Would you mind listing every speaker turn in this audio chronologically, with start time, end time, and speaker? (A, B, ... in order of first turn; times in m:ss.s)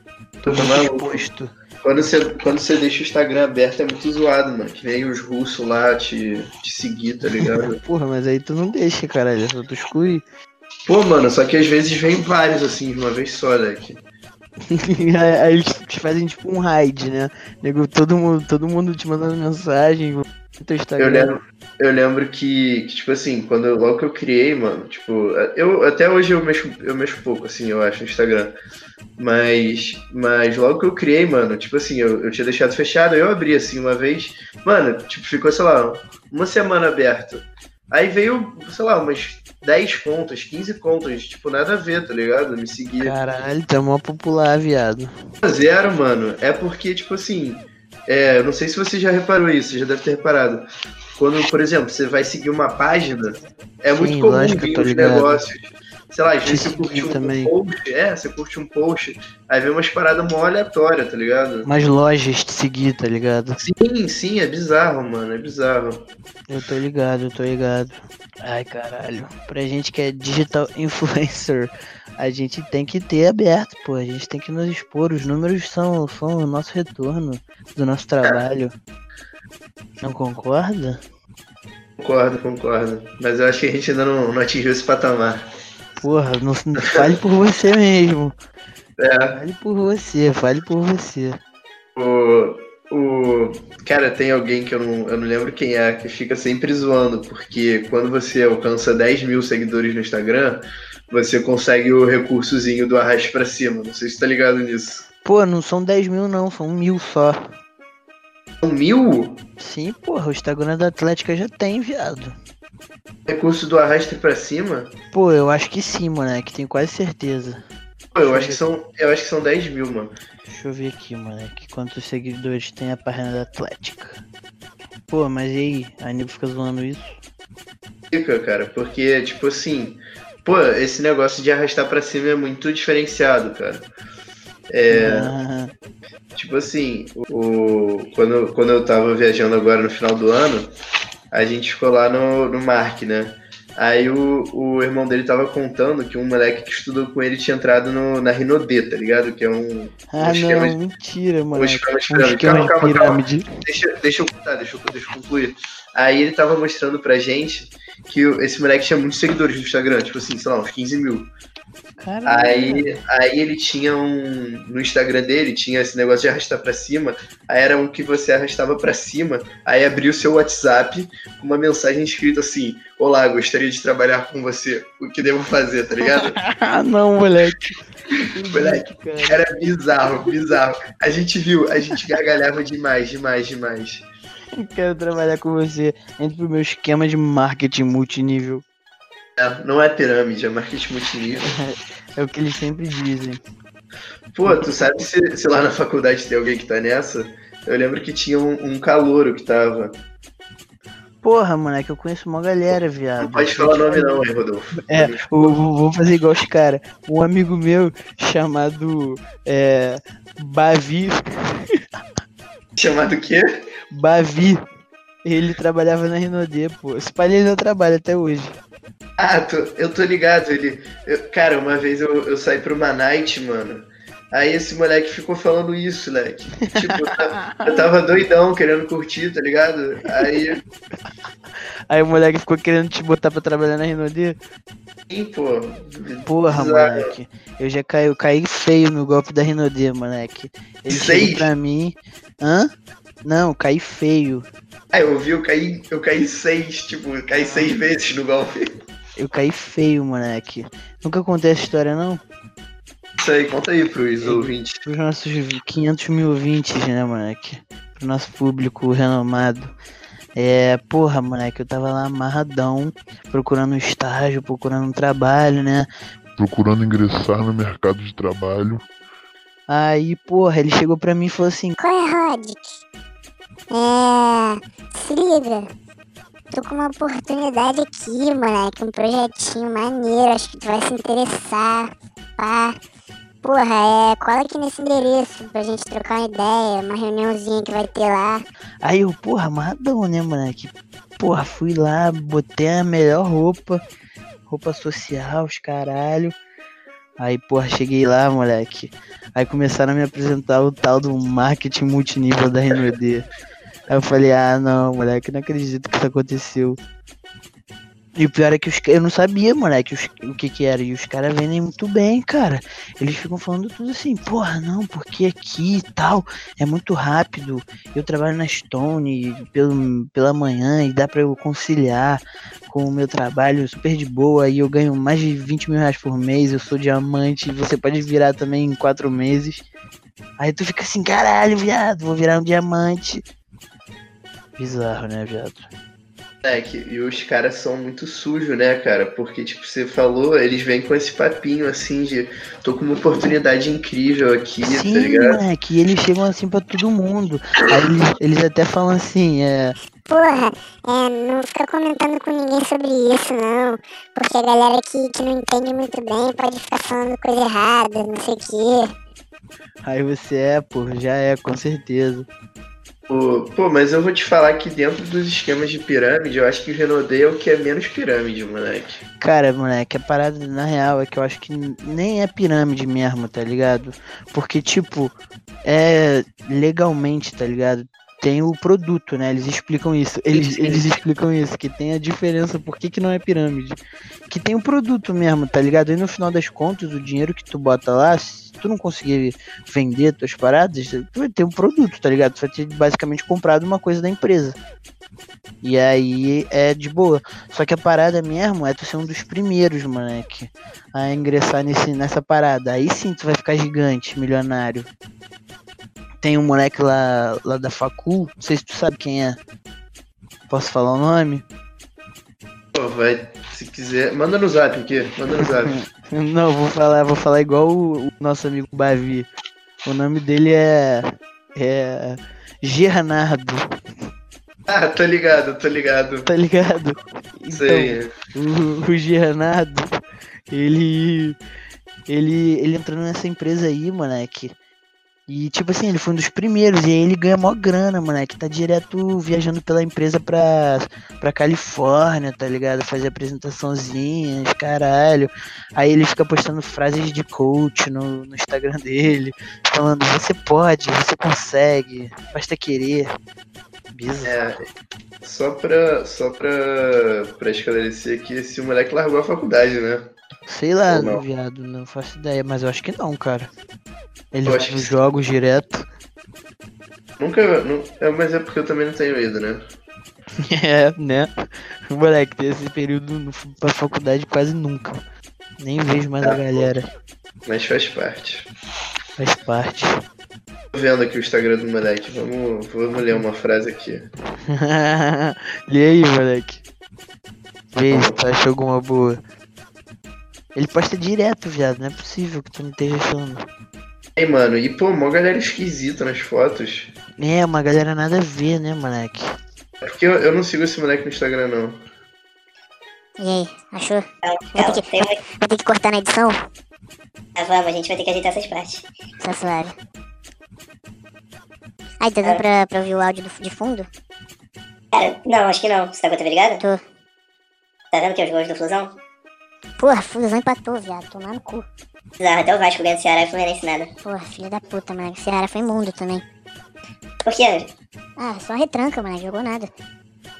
0:00.4-0:01.5 A
0:00.5-0:01.2 B
0:01.8-0:07.8 B
0:07.4-0:10.2 A
0:10.8-0:14.0 B
0:14.7-0:21.3 A
0:21.0-0:28.5 B
0:29.2-0:43.1 B
0:43.0-0:45.1 A
0:45.4-1:01.7 B
0:54.0-0:55.4 A
0:56.4-0:57.5 A
1:01.6-1:03.6 A
1:03.6-1:06.0 B
1:06.5-1:18.7 A
1:20.0-1:21.0 A
1:22.0-1:25.4 B
1:26.0-1:28.3 A
1:29.0-1:29.4 B
1:29.3-1:31.4 A
1:32.0-1:45.0 B
1:45.2-1:47.5 A
1:48.6-1:49.4 B
1:49.6-1:52.3 A
1:53.3-1:54.9 B
1:55.1-1:57.6 A
1:58.1-2:00.1 B
1:58.2-1:58.6 A
2:00.5-2:04.2 A
2:05.1-2:07.2 A
2:08.1-2:13.9 B
2:14.7-2:15.3 B
2:14.9-2:15.7 A
2:16.3-2:20.7 B
2:21.3-2:30.8 B
2:30.1-2:33.4 A
2:31.5-2:41.3 B
2:42.0-2:43.0 A
2:42.2-2:56.4 B
2:56.1-2:57.8 A
2:58.3-2:59.4 A
2:58.5-3:04.1 B
3:04.6-3:08.6 A
3:09.4-3:11.5 B
3:11.5-3:13.4 A
3:14.3-3:20.0 B
3:14.5-3:14.7 A
3:21.2-3:24.2 A
3:23.2-3:25.5 B
3:24.8-3:31.8 A
3:32.8-3:33.4 B
3:33.9-3:34.6 A
3:35.2-3:38.5 A
3:39.2-3:50.6 B
3:46.9-3:47.9 A
3:51.9-3:54.4 A
3:55.1-3:57.1 B
3:56.2-4:02.7 A
4:00.9-4:01.5 B
4:03.2-4:04.4 A
4:04.9-4:08.6 B
4:07.4-4:07.7 A
4:09.2-4:12.2 A
4:13.2-4:14.8 B
4:14.2-4:19.7 A
4:20.4-4:25.9 A
4:26.4-4:28.9 C
4:29.7-4:31.7 A
4:31.8-4:32.7 D
4:33.7-4:35.7 D
4:36.5-4:42.8 D
4:43.4-4:48.4 D
4:48.8-4:53.8 A
4:54.5-4:56.3 A
4:57.2-5:03.3 A
5:03.9-5:06.8 A
5:08.2-5:29.6 A
5:30.4-5:33.2 A
5:34.6-5:35.7 A
5:36.4-5:45.4 B
5:44.6-5:49.8 A
5:50.0-5:58.9 D
5:59.8-6:02.3 A
6:03.1-6:09.0 B
6:09.2-6:23.8 A
6:20.3-6:20.8 B
6:24.3-6:34.6 A
6:35.6-6:44.9 A
6:46.2-6:49.4 A
6:50.5-6:51.4 A
6:52.7-6:55.8 B
6:55.4-6:59.3 A
6:59.8-7:03.6 A
7:04.7-7:06.3 B
7:06.3-7:09.9 A
7:07.5-7:08.1 B
7:10.5-7:11.4 A
7:12.1-7:14.5 A
7:15.3-7:33.1 A
7:33.9-7:34.5 A
7:34.2-7:34.6 B
7:35.2-7:40.1 B
7:40.5-7:43.5 A
7:40.9-7:41.2 B
7:44.3-7:45.8 A
7:44.4-7:45.0 B
7:47.2-7:49.7 B
7:50.4-7:51.3 A
7:51.9-7:55.0 A
7:55.6-7:56.9 A
7:56.2-7:56.7 B
7:57.4-7:58.5 B
7:59.2-7:59.9 A
8:00.7-8:04.1 B
8:04.5-8:06.6 A
8:07.7-8:09.2 A
8:07.9-8:08.2 B
8:10.5-8:13.4 A
8:14.2-8:16.9 B
8:17.2-8:19.2 A
8:19.8-8:21.8 B
8:23.2-8:26.3 D
8:24.2-8:25.2 E
8:27.4-8:28.8 E
8:29.2-8:29.7 D
8:32.0-8:33.9 D
8:34.9-8:36.6 E
8:37.9-8:38.9 E
8:39.8-8:41.6 D
8:42.2-8:43.9 E
8:44.0-8:46.2 D
8:47.2-8:47.7 E
8:48.2-8:49.7 D